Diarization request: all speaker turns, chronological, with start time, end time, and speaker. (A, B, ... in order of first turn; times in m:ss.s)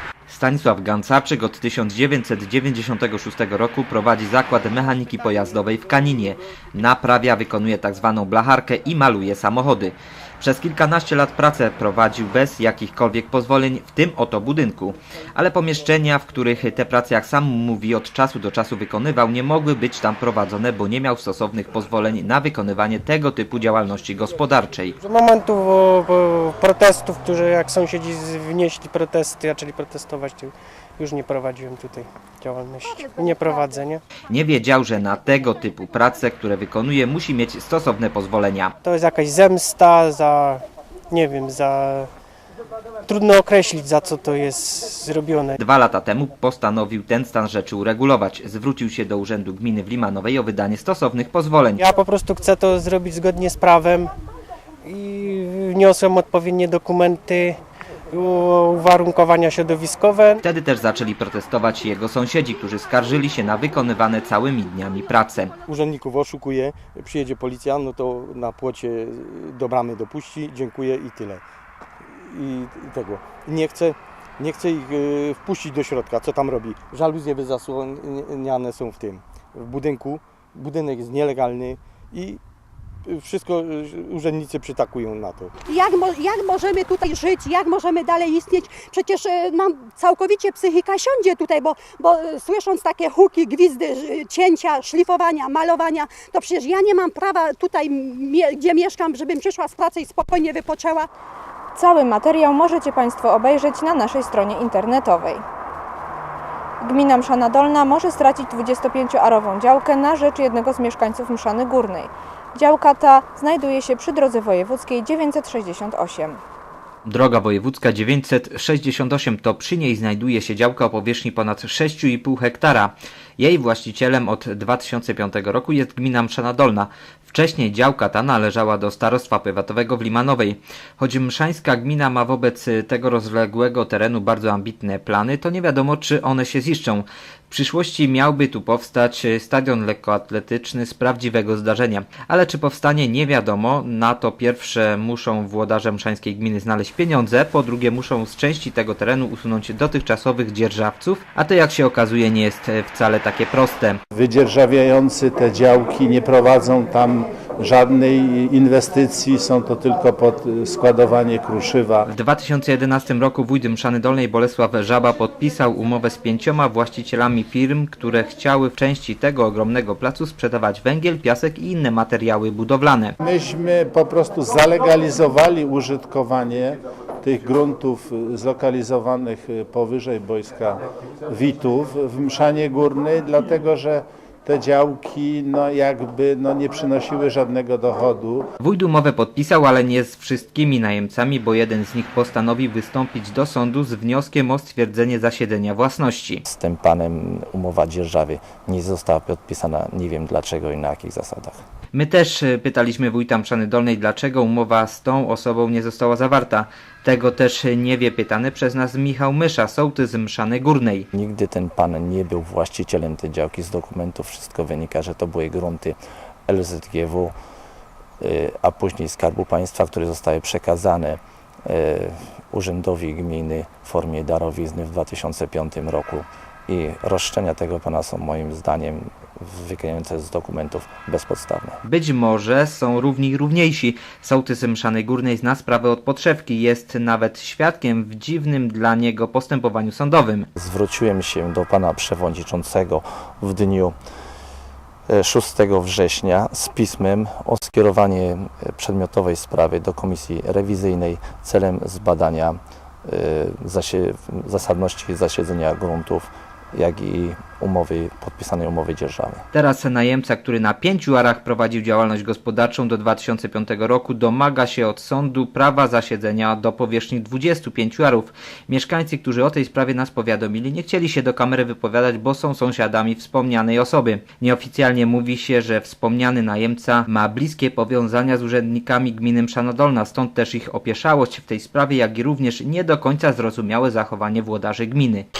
0:00.3-0:24.9 A
0:25.0-0:34.0 B
0:32.8-0:33.8 C
0:34.3-0:38.7 A
0:38.8-0:42.1 B
0:43.0-0:45.6 B
0:45.6-0:51.8 A
0:51.8-0:54.1 B
0:54.8-0:57.6 B
0:58.1-1:00.4 B
1:00.4-1:05.5 A
1:05.7-1:11.4 D
1:12.0-1:22.4 D
1:23.0-1:25.5 D
1:25.7-1:41.1 C
1:41.8-1:45.4 E
1:46.8-1:56.4 E
1:57.0-2:34.0 A
2:34.1-2:42.1 F
2:42.0-2:53.2 A
2:53.2-3:08.4 F
3:08.6-3:16.4 A
3:16.5-3:21.6 G
3:21.9-3:31.1 A
3:31.1-3:37.3 G
3:38.2-3:51.8 G
3:51.8-4:00.5 A
4:00.6-4:03.9 G
4:05.1-4:19.4 G
4:19.5-4:45.2 A